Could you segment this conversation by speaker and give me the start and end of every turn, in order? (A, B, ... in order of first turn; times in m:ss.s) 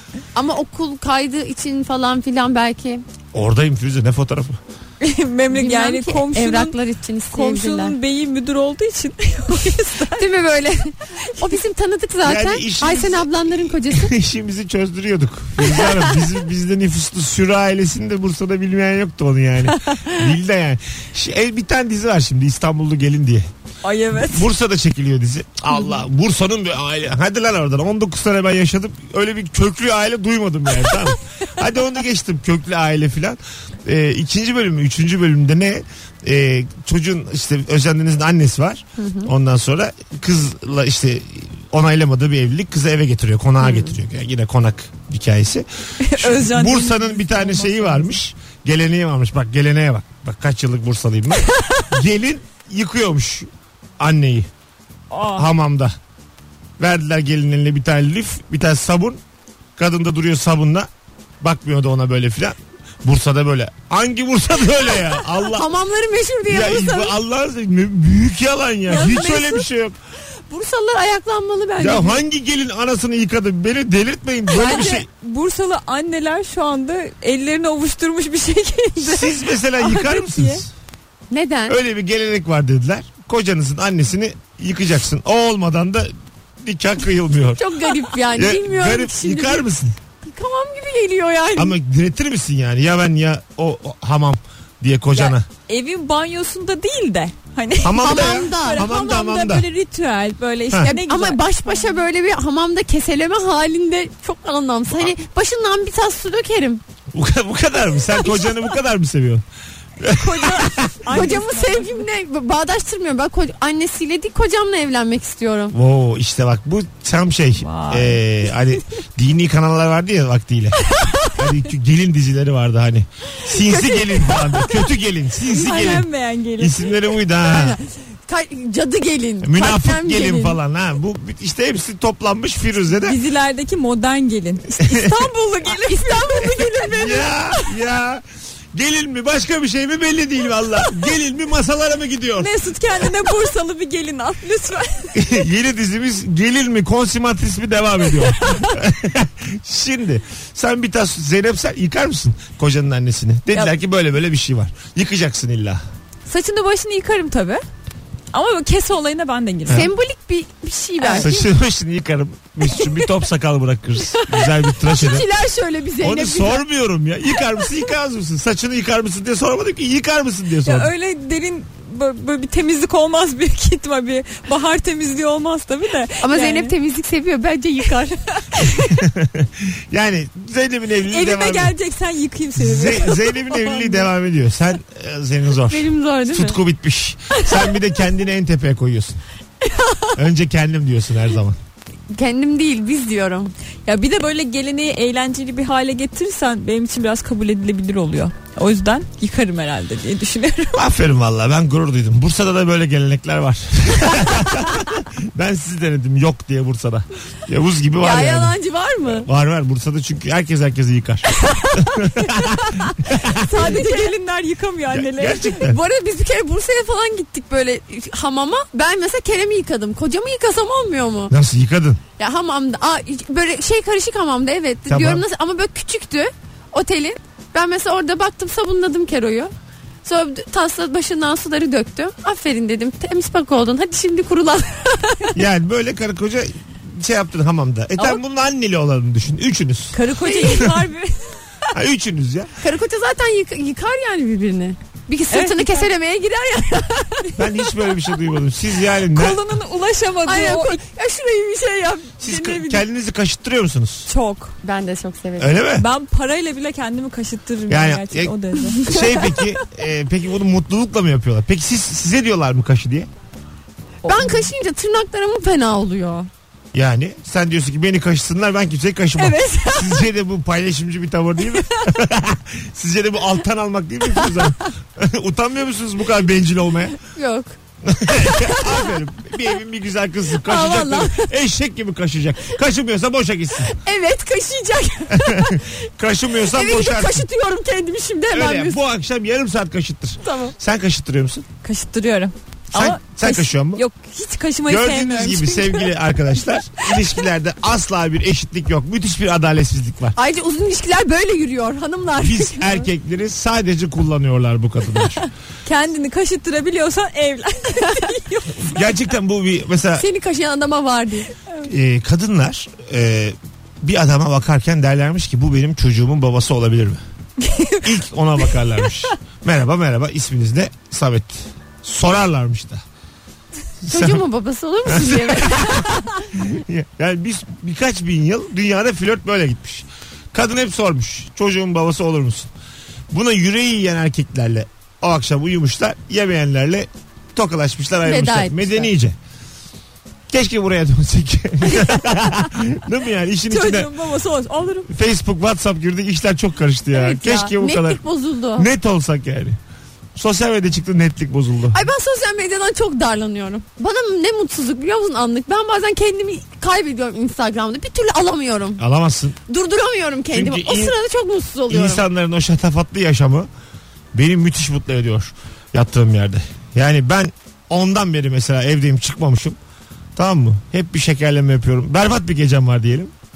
0:00.4-0:03.0 A
0:03.3-0:04.6 B
0:05.0-0:06.8 C
0:05.5-0:08.0 A
0:07.3-0:10.3 C
0:10.1-0:14.1 A
0:12.2-0:23.5 B
0:23.8-0:24.5 C
0:24.1-0:54.5 B
0:39.0-0:39.3 A
0:43.6-0:44.0 A
0:46.0-0:48.2 C
0:55.1-0:55.5 C
0:55.3-0:56.0 B
0:56.8-0:59.2 B
0:59.8-1:00.9 B
1:01.4-1:05.7 B
1:05.5-1:07.2 A
1:06.5-1:10.0 B
1:08.9-1:09.6 A
1:09.0-1:09.3 C
1:10.5-1:12.2 A
1:11.8-1:15.1 B
1:14.5-1:20.6 C
1:14.5-1:15.0 A
1:19.0-1:20.7 B
1:21.3-1:21.8 A
1:21.7-1:27.7 B
1:27.6-1:29.7 A
1:28.3-1:30.0 B
1:30.2-1:31.8 A
1:31.6-1:35.4 B
1:35.2-1:41.9 C
1:37.8-1:39.7 B
1:38.0-1:38.9 A
1:40.8-1:46.8 A
1:47.1-1:49.4 B
1:50.0-1:51.3 B
1:50.1-1:52.0 C
1:51.1-1:55.8 A
1:55.7-2:00.8 B
1:57.6-1:58.2 C
2:01.3-2:06.1 B
2:03.5-2:04.6 A
2:05.4-2:06.9 C
2:06.6-2:07.8 B
2:07.4-2:10.6 A
2:09.4-2:13.2 B
2:13.0-2:17.7 C
2:14.8-2:15.2 B
2:15.7-2:17.1 A
2:16.4-2:22.5 B
2:22.4-2:25.4 C
2:25.1-2:35.8 B
2:36.3-2:37.6 C
2:38.3-2:39.9 C
2:39.7-2:41.5 A
2:41.0-2:41.3 C
2:41.2-2:45.3 B
2:44.2-2:46.6 A
2:46.0-2:50.9 B
2:50.6-2:56.7 C
2:56.2-2:58.2 A
2:58.5-2:58.9 C
2:58.8-3:01.8 B
3:01.1-3:04.1 C
3:02.6-3:09.2 B
3:05.7-3:06.6 A
3:07.3-3:07.7 A
3:09.6-3:10.1 A
3:10.2-3:11.6 B
3:12.1-3:13.5 A
3:13.9-3:20.8 C
3:20.8-3:33.6 B
3:28.0-3:29.3 A
3:31.5-3:34.1 A
3:33.2-3:35.6 C
3:34.9-3:35.8 B
3:35.4-3:41.3 A
3:41.3-3:42.0 B
3:42.2-3:49.5 A
3:44.9-3:45.2 B
3:50.0-3:55.4 A
3:55.4-4:00.7 B
3:59.9-4:01.4 C
4:00.1-4:00.8 A
4:01.7-4:02.5 B
4:02.6-4:07.4 A
4:05.3-4:05.9 C
4:07.4-4:09.4 B
4:09.1-4:10.8 C
4:10.2-4:12.8 A
4:12.2-4:14.1 B
4:14.1-4:14.6 C
4:14.6-4:15.6 A
4:15.4-4:15.9 B
4:15.8-4:19.5 C
4:17.7-4:23.1 B
4:24.0-4:26.3 A
4:24.0-4:24.5 C
4:26.7-4:37.0 B
4:29.2-4:30.0 C
4:37.0-4:38.9 A
4:37.8-4:43.8 B
4:40.4-4:41.3 A
4:43.6-4:45.8 A
4:45.1-4:47.3 B
4:46.4-4:48.8 A
4:48.3-4:51.5 B
4:50.2-4:50.5 A
4:51.6-4:55.9 C
4:52.7-4:53.8 B
4:54.7-5:00.2 B
5:00.2-5:02.9 A
5:02.2-5:05.3 B
5:05.7-5:09.0 C
5:08.6-5:10.1 B
5:10.0-5:11.3 A
5:11.6-5:17.0 B
5:17.4-5:17.9 C
5:17.8-5:22.8 B
5:23.8-5:24.2 B
5:23.9-5:26.1 A
5:24.9-5:32.5 B
5:33.1-5:39.2 B
5:38.0-5:38.9 A
5:40.3-5:43.9 B
5:43.5-5:44.9 C
5:44.9-5:48.0 B
5:46.9-5:48.7 A
5:48.6-5:49.6 B
5:50.2-5:51.8 B
5:51.7-5:58.8 A
5:58.8-5:59.4 B
5:59.5-6:02.0 A
6:00.3-6:01.0 B
6:01.7-6:03.5 B
6:04.1-6:09.6 B
6:10.2-6:13.1 B